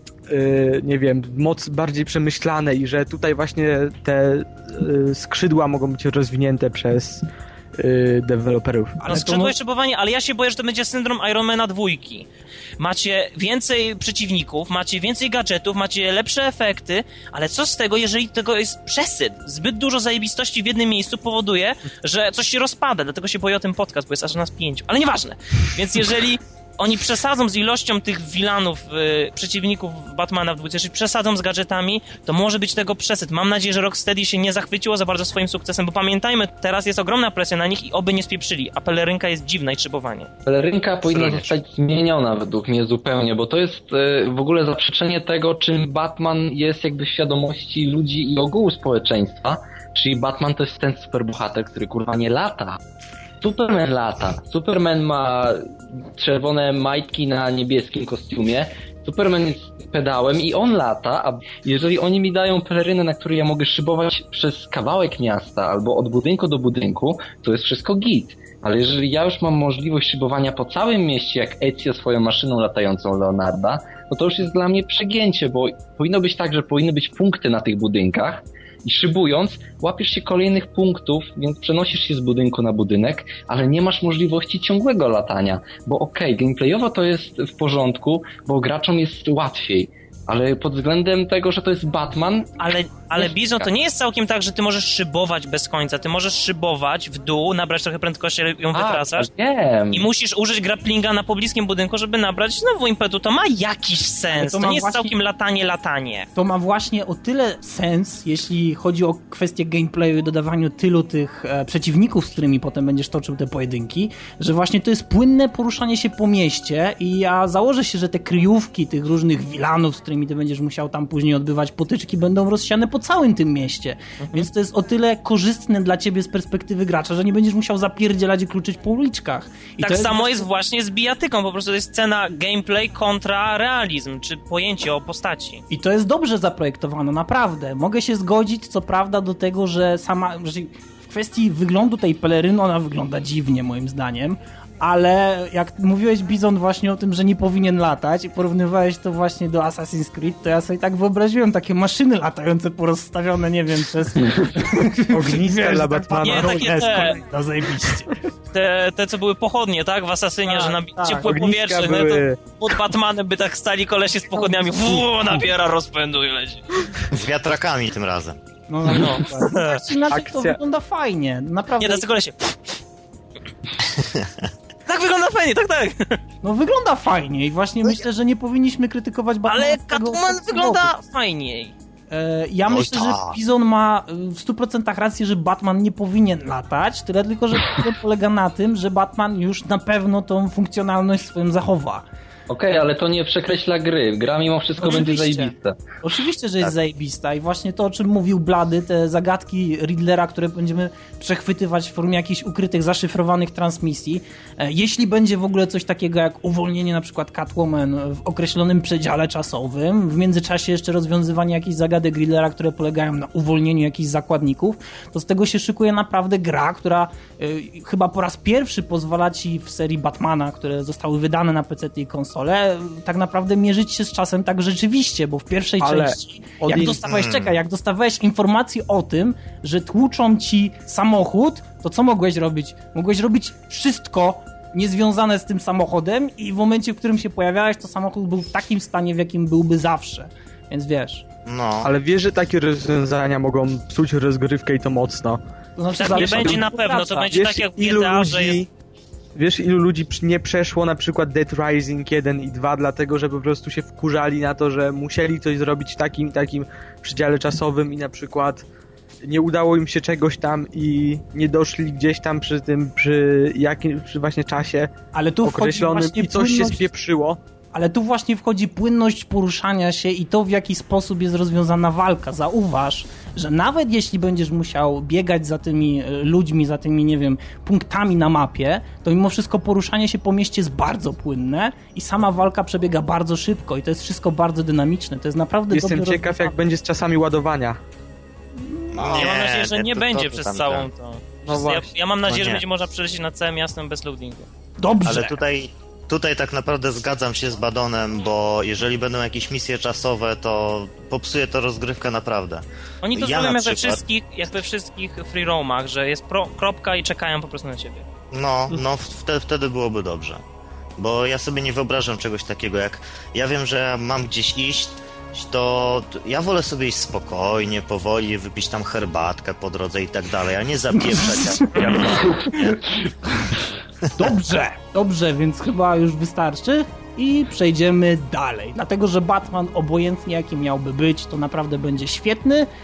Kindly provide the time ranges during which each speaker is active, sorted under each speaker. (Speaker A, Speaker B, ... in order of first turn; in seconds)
Speaker A: 0.3-7.2, 7.8-9.0, 155.1-156.7, 161.2-162.5, 170.1-170.6, 225.8-227.0, 241.8-245.4, 246.1-246.7, 247.3-248.7, 249.3-258.6, 259.2-267.4, 285.7-287.8, 291.4-291.9
Speaker B: 9.0-9.6, 104.3-105.1, 106.4-130.5, 135.7-158.1, 160.5-161.3, 164.3-165.1, 168.7-172.1, 176.4-180.9, 182.1-192.0, 194.8-195.5, 196.0-241.3, 245.8-247.3, 265.1-266.9, 267.7-286.6, 288.6-289.3, 294.8-295.4, 321.0-322.8, 324.2-332.7
Speaker C: 9.1-12.3, 12.8-40.3, 92.6-99.3, 99.9-106.3, 124.2-124.5, 129.8-135.6, 156.2-157.2, 158.5-166.7, 168.8-169.8, 171.8-172.6, 174.9-176.2, 179.5-181.7, 246.0-248.6, 289.1-294.5, 303.0-308.1
Speaker D: 40.5-52.8, 53.4-92.5, 98.7-100.1, 192.5-195.8
Speaker E: 41.1-41.5, 167.1-168.4, 174.0-174.5, 182.7-183.4, 227.1-227.6, 241.5-241.9, 288.9-290.9, 292.3-292.6, 295.0-302.6, 303.1-304.0, 308.3-310.4, 311.0-322.8, 324.1-324.3